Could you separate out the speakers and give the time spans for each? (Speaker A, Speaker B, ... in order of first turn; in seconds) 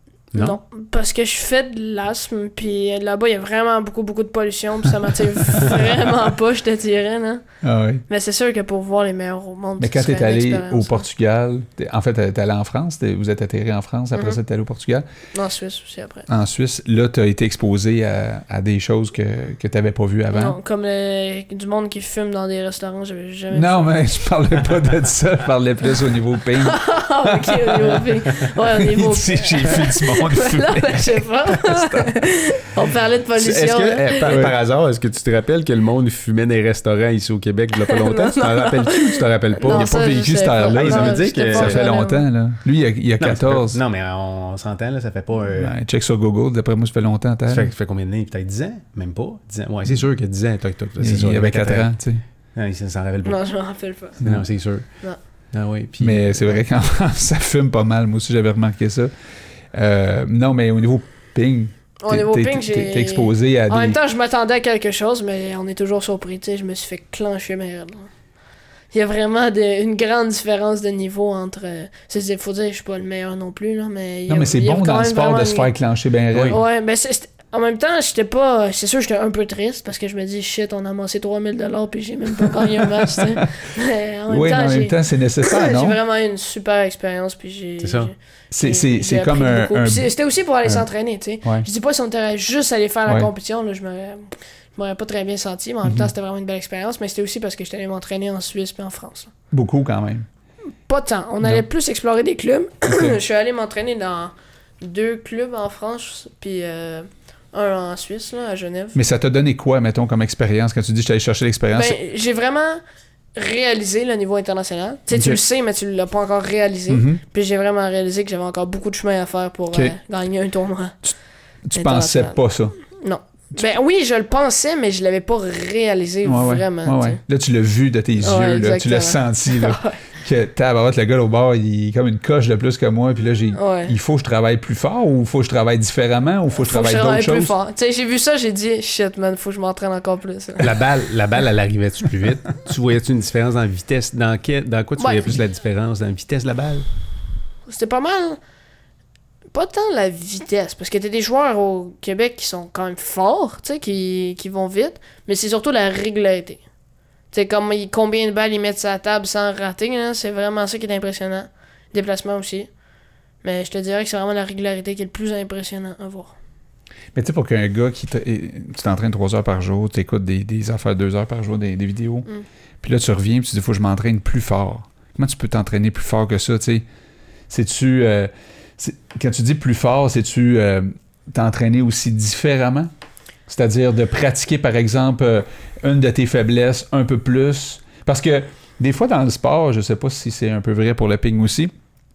Speaker A: 0.3-7.4, 8.1-11.1, 15.3-16.3, 20.3-23.9, 26.6-34.4, 37.9-42.2, 53.2-54.2, 62.0-68.1, 68.9-75.7, 76.5-99.3, 100.9-109.0, 111.7-112.8, 113.3-121.0, 121.7-127.2, 128.2-130.0, 133.5-133.9, 136.6-140.8, 145.0-145.4, 147.7-148.4, 149.5-156.6, 157.3-162.7, 163.4-166.3
Speaker B: 7.6-8.0, 9.8-15.0, 16.3-20.6, 23.5-28.0, 28.7-32.2, 34.3-34.5, 39.6-43.8, 45.5-47.7, 51.0-52.2, 56.0-59.1, 59.7-64.0, 74.3-76.6, 82.5-83.4, 84.3-86.0, 88.5-90.1, 95.8-96.1, 99.5-100.2, 102.8-103.2, 108.9-112.0, 115.1-115.4, 116.9-117.2, 121.7-122.7, 126.2-137.5, 167.1-172.3, 172.8-176.8, 177.5-182.9, 183.5-191.7
Speaker C: 33.4-41.9, 43.2-45.7, 47.5-51.9, 52.5-53.4, 54.2-55.0, 55.5-56.6, 76.3-76.6, 87.8-88.1, 140.6-146.8